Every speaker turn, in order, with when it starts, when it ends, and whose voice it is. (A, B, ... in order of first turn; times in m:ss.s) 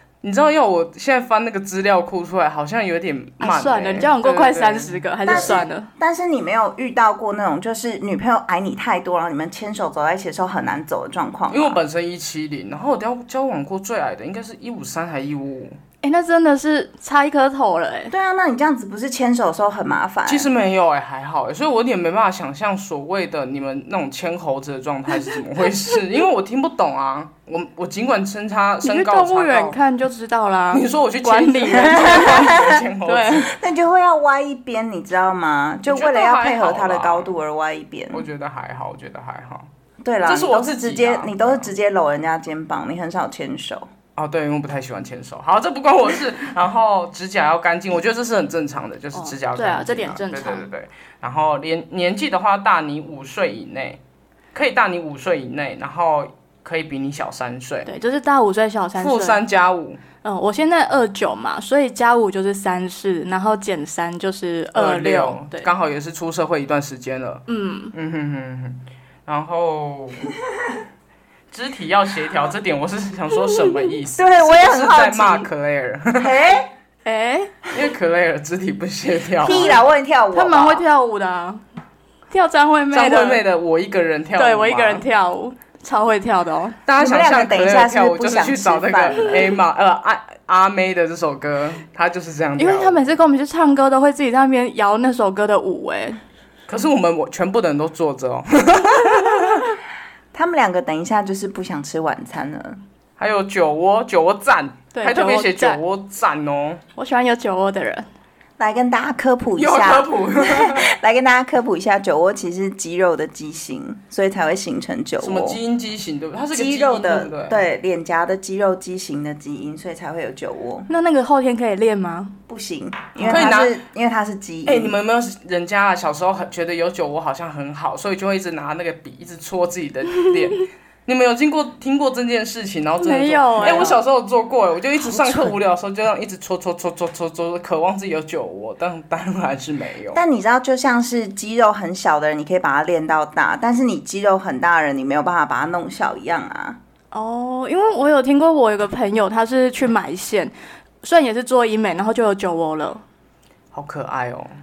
0:00.2-0:05.6 A
0:03.4-0:05.9 B
0:05.3-0:11.8 C
0:11.5-0:15.8 A
0:16.0-0:18.1 B
0:18.1-0:20.5 C
0:20.3-0:29.8 A
0:28.8-0:33.5 B
0:30.7-0:33.5 A
0:31.8-0:32.8 C
0:33.4-0:38.3 C
0:35.9-0:37.3 A
0:38.1-0:39.7 A
0:40.0-0:43.9 C
0:40.2-0:41.7 A
0:44.2-0:54.0 A
0:49.1-0:50.7 B
0:54.5-0:57.9 A
0:57.9-0:59.4 B
0:59.0-1:00.0 A
1:00.2-1:05.7 B
1:04.8-1:10.3 A
1:07.5-1:07.9 B
1:11.5-1:16.4 A
1:14.2-1:15.5 C
1:16.2-1:16.7 C
1:17.0-1:17.6 B
1:17.7-1:19.8 A
1:19.4-1:20.8 C
1:19.5-1:19.8 B
1:20.3-1:21.6 B
1:22.3-1:23.4 B
1:22.9-1:25.1 A
1:24.4-1:26.8 B
1:26.9-1:33.1 A
1:27.0-1:29.5 C
1:32.6-1:36.2 B
1:36.7-1:39.8 A
1:40.3-1:42.8 C
1:43.2-1:46.8 A
1:44.9-1:45.8 B
1:47.0-1:48.1 B
1:48.6-1:55.6 C
1:49.6-1:50.9 A
1:55.2-1:57.6 A
1:56.5-2:00.9 C
2:00.9-2:02.4 B
2:02.5-2:04.9 C
2:03.2-2:03.8 A
2:04.7-2:20.2 A
2:13.0-2:14.0 B
2:15.0-2:15.6 C
2:20.1-2:26.8 C
2:27.1-2:33.0 B
2:33.7-2:34.5 A